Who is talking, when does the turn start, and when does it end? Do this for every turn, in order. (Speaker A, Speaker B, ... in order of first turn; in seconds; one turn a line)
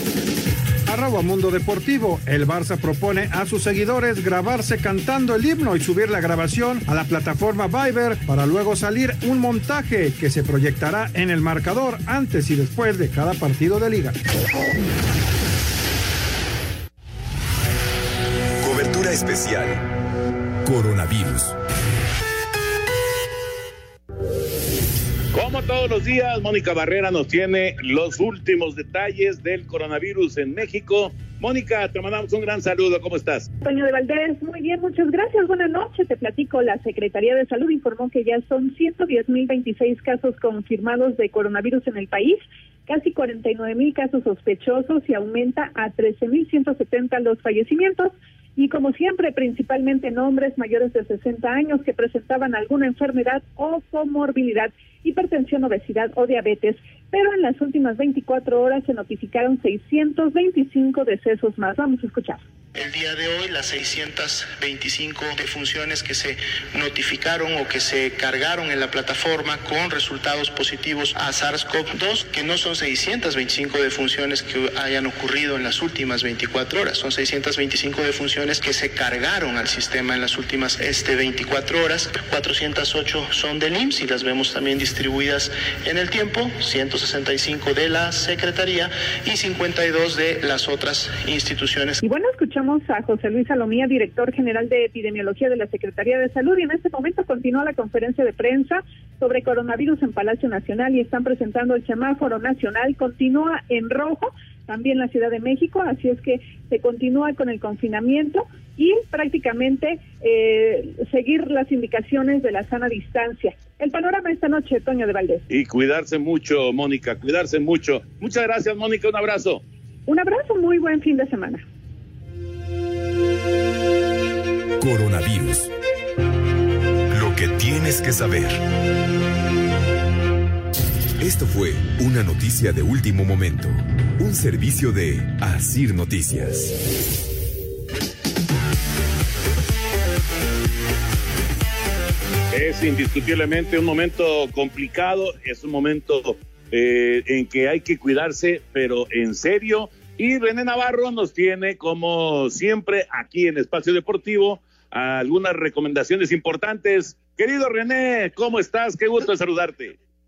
Speaker A: 0.9-14.2
Speaker B: 18.6-19.8
Speaker B: 20.6-21.6
Speaker C: 25.3-33.5
Speaker D: 33.6-62.4
Speaker E: 62.7-92.0
Speaker D: 92.0-115.4
Speaker C: 115.5-119.6
Speaker D: 120.1-121.6
Speaker B: 124.8-125.7
Speaker B: 127.1-128.6
Speaker B: 131.2-136.7
Speaker C: 142.5-159.9